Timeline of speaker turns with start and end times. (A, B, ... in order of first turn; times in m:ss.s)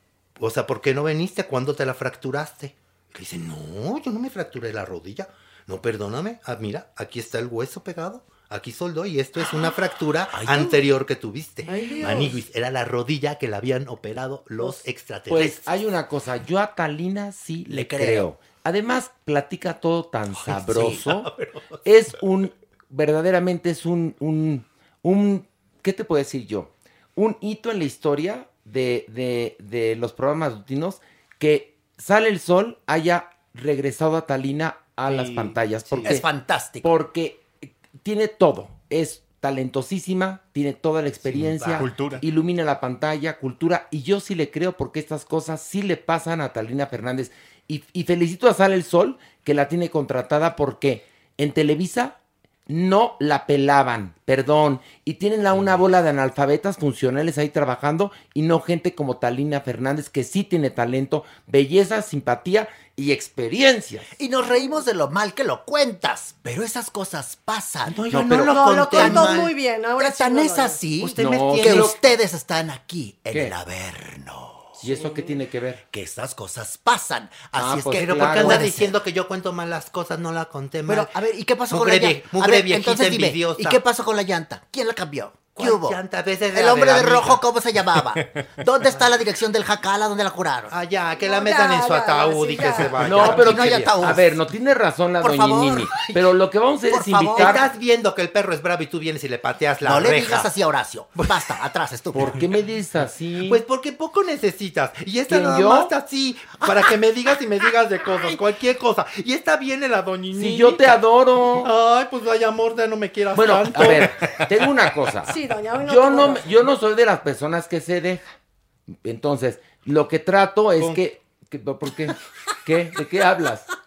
0:00.4-0:15.6 A
0:10.3-0:10.8 B
0:11.7-0:12.4 C
0:15.3-0:21.3 D
0:17.7-0:18.3 B
0:20.4-0:21.0 B
0:21.1-0:21.8 A
0:21.8-0:36.2 D
0:36.0-0:36.9 B
0:36.8-0:52.2 D
0:41.3-0:42.1 A
0:52.7-1:04.1 D
1:04.1-1:09.5 B
1:07.9-1:09.5 A
1:08.1-1:09.1 D
1:08.5-1:10.8 C
1:10.0-1:14.8 B
1:11.0-1:12.0 A
1:11.1-1:12.0 D
1:14.8-1:15.8 D
1:15.9-1:18.9 B
1:17.6-1:18.9 D
1:17.9-1:21.1 A
1:20.8-1:30.7 B
1:21.7-1:23.8 A
1:25.5-1:27.4 A
1:30.7-1:34.1 A
1:31.2-1:33.4 C
1:33.0-1:34.4 B
1:33.0-1:37.6 D
1:35.2-1:36.1 B
1:36.9-1:37.6 B
1:37.3-1:40.5 A
1:39.8-1:42.4 B
1:41.2-1:41.6 A
1:42.1-1:43.6 D
1:43.4-1:50.9 A
1:45.3-1:45.9 D
1:50.3-1:51.7 D
1:51.5-1:54.1 A
1:53.3-1:58.3 D
1:55.2-1:56.6 C
1:59.0-2:03.7 D